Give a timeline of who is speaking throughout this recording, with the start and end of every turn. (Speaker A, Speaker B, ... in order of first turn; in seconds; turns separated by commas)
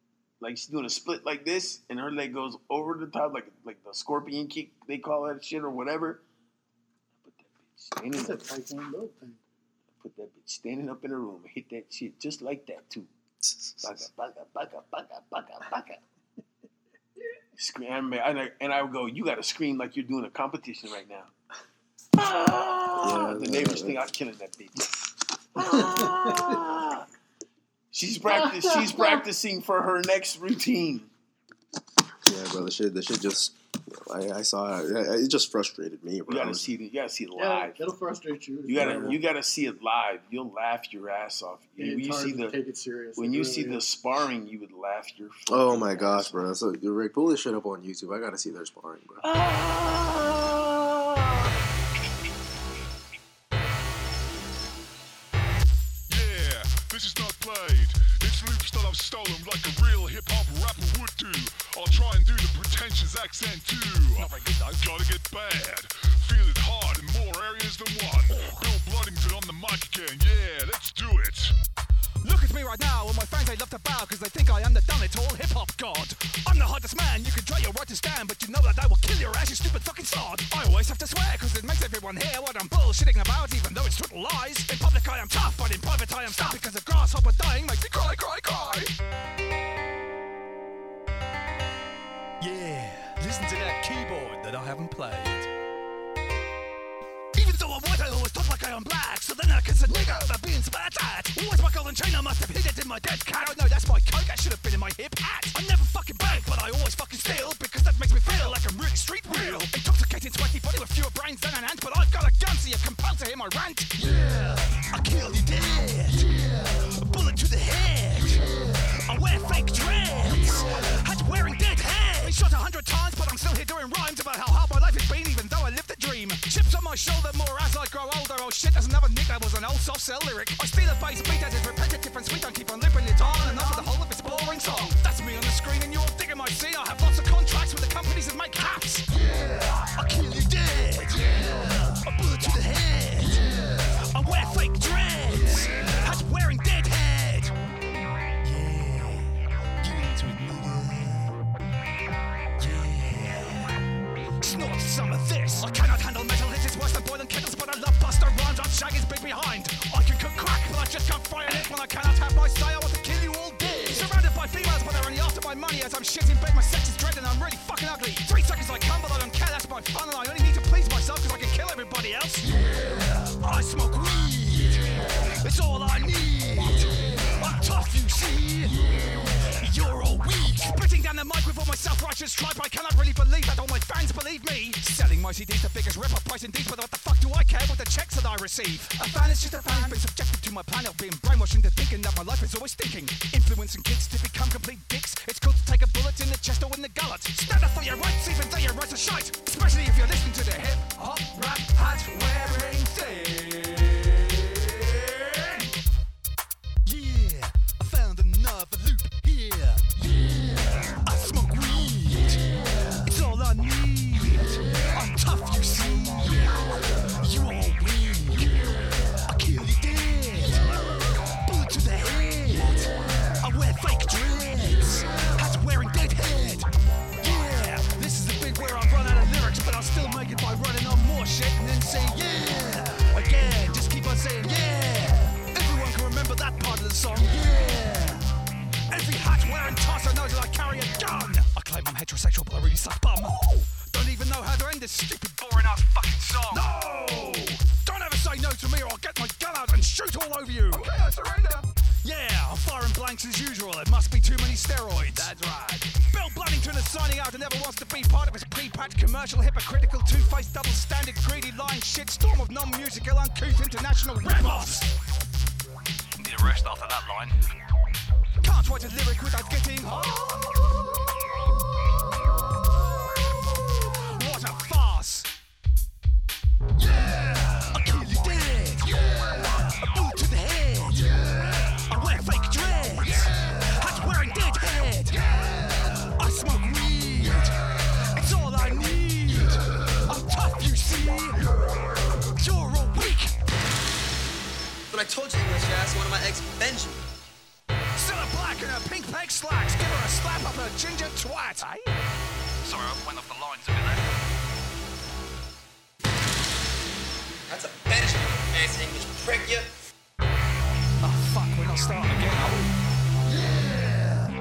Speaker A: 0.4-6.2, Speaker A: 7.2-8.4, Speaker B: 8.1-9.4, Speaker A: 10.0-13.1, Speaker C: 13.4-13.8, Speaker A: 13.8-16.0, Speaker A: 17.6-21.3, Speaker A: 22.2-24.9, Speaker C: 23.0-24.0, Speaker A: 25.6-27.1, Speaker B: 25.8-26.6, Speaker A: 27.9-31.1, Speaker C: 32.2-36.7, Speaker A: 36.3-37.8, Speaker B: 37.4-39.2, Speaker A: 38.7-42.6, Speaker C: 38.8-39.2, Speaker B: 41.8-43.8, Speaker A: 43.2-46.4, Speaker C: 45.5-49.2, Speaker A: 49.2-51.5, Speaker D: 56.1-71.5, Speaker E: 64.2-64.8, Speaker E: 72.2-88.9, Speaker E: 92.4-95.5, Speaker E: 97.3-118.5, Speaker E: 119.0-147.6, Speaker E: 148.4-151.4, Speaker E: 152.6-153.8, Speaker E: 154.4-174.9, Speaker E: 175.4-178.8, Speaker E: 179.6-205.7, Speaker E: 206.8-210.2, Speaker E: 210.9-212.5, Speaker E: 213.0-220.7, Speaker E: 221.3-222.8, Speaker E: 223.4-226.7, Speaker E: 227.2-238.3, Speaker E: 238.9-264.9, Speaker E: 266.2-267.3, Speaker E: 268.4-270.5, Speaker E: 274.1-275.3, Speaker E: 277.6-285.2, Speaker E: 286.0-291.5, Speaker E: 292.3-293.3, Speaker F: 294.9-297.1, Speaker E: 298.0-301.9, Speaker E: 302.7-304.0, Speaker F: 307.5-309.7, Speaker E: 311.0-312.7